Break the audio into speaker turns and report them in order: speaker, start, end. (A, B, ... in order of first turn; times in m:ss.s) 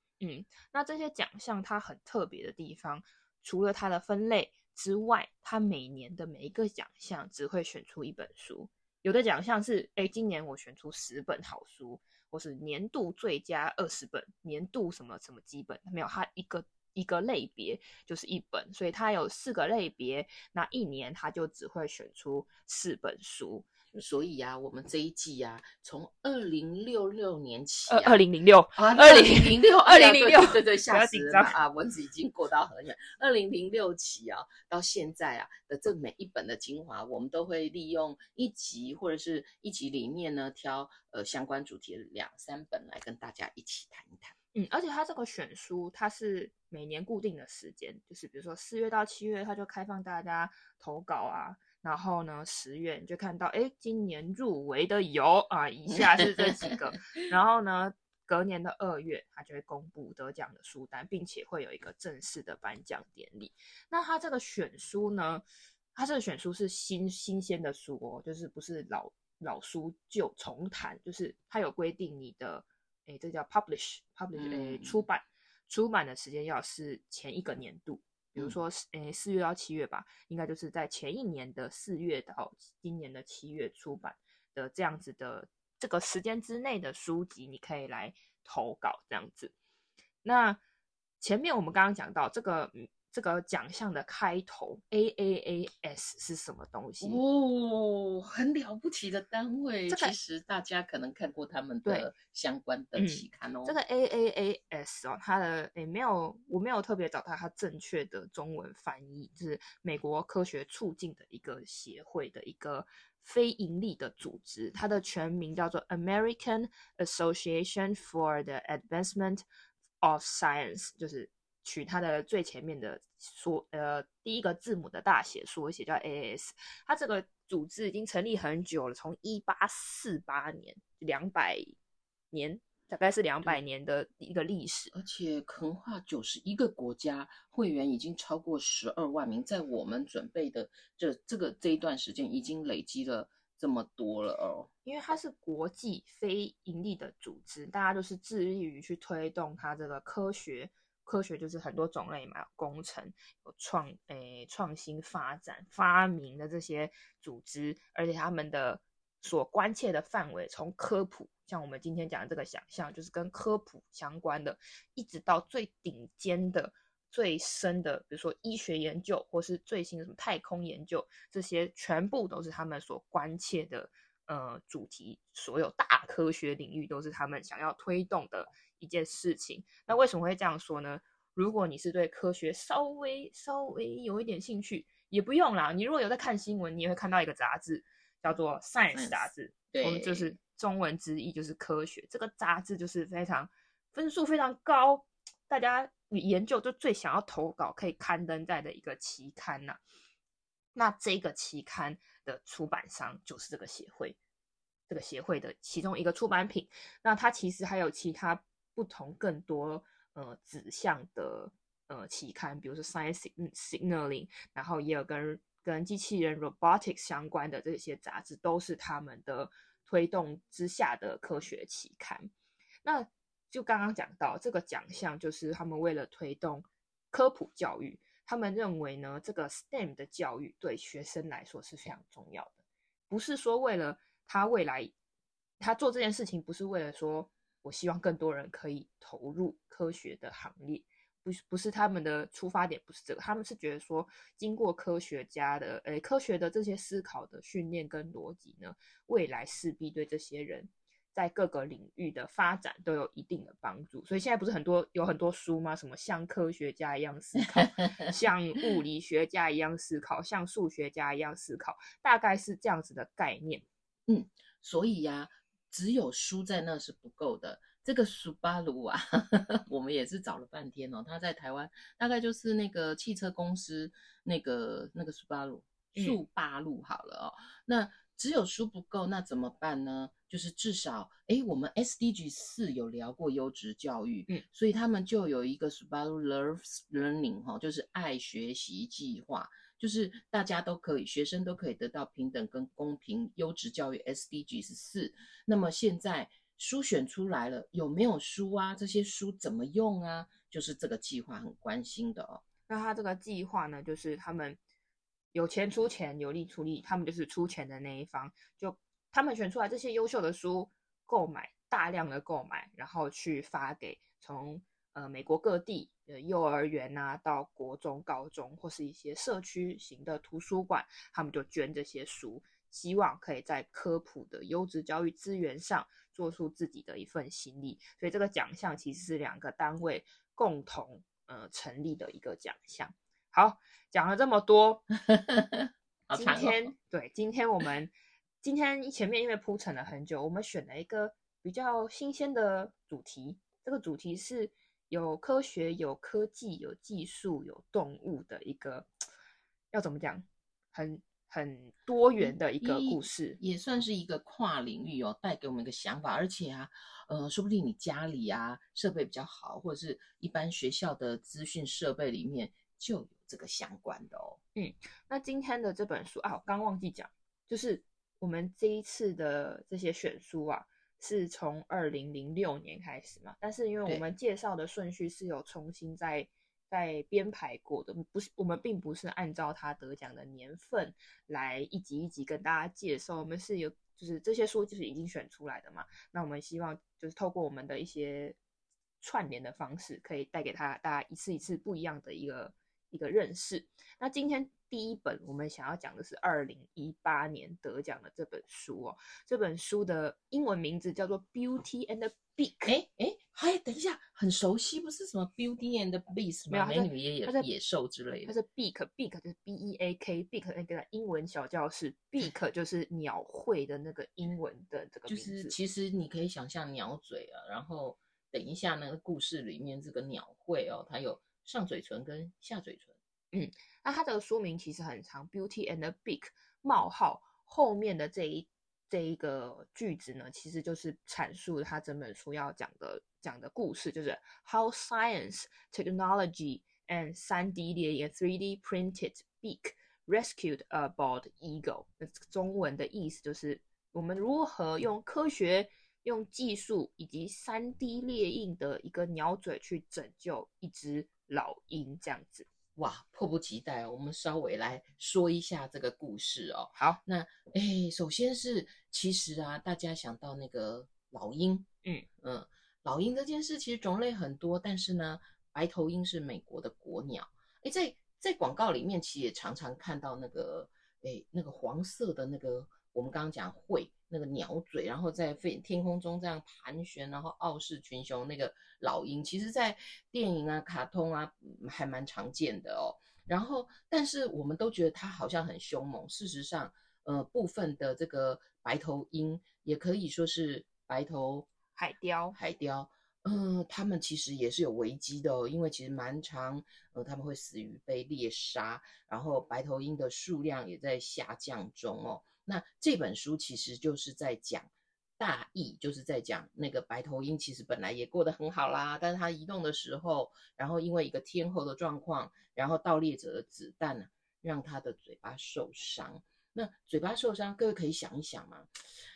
0:00.2-0:23.7 A
0:23.9-0:28.2 B
0:27.9-0:31.6 A
0:28.8-0:44.4 B
0:44.5-1:05.4 A
0:56.4-0:56.7 B
1:06.0-1:29.5 A
1:14.3-1:15.0 B
1:30.2-1:30.6 A
1:31.2-1:37.2 A
1:37.0-1:43.8 B
1:39.9-1:40.2 A
1:41.8-1:42.1 A
1:43.0-1:59.4 A
2:00.0-2:11.8 A
2:12.3-2:14.9 A
2:14.9-2:24.7 B
2:24.8-3:19.8 A
3:08.9-3:10.3 B
3:20.8-3:24.2 A
3:24.9-3:42.3 A
3:42.8-3:52.6 A
3:53.1-3:54.9 A
3:55.6-4:23.6 A
4:17.6-4:18.1 B
4:24.1-5:02.4 B
5:02.7-5:04.6 A
5:05.3-5:34.8 A
5:35.1-5:36.7 B
5:36.1-5:48.9 A
5:49.7-5:53.4 A
5:52.2-6:04.4 B
6:04.6-6:28.4 A
6:29.0-6:42.8 A
6:42.6-6:48.3 B
6:46.5-6:47.5 A
6:48.2-6:55.6 A
6:55.1-7:03.0 B
7:03.3-7:32.5 A
7:32.8-7:41.7 B
7:42.2-8:11.5 B
8:11.8-8:12.4 A
8:12.3-8:38.8 B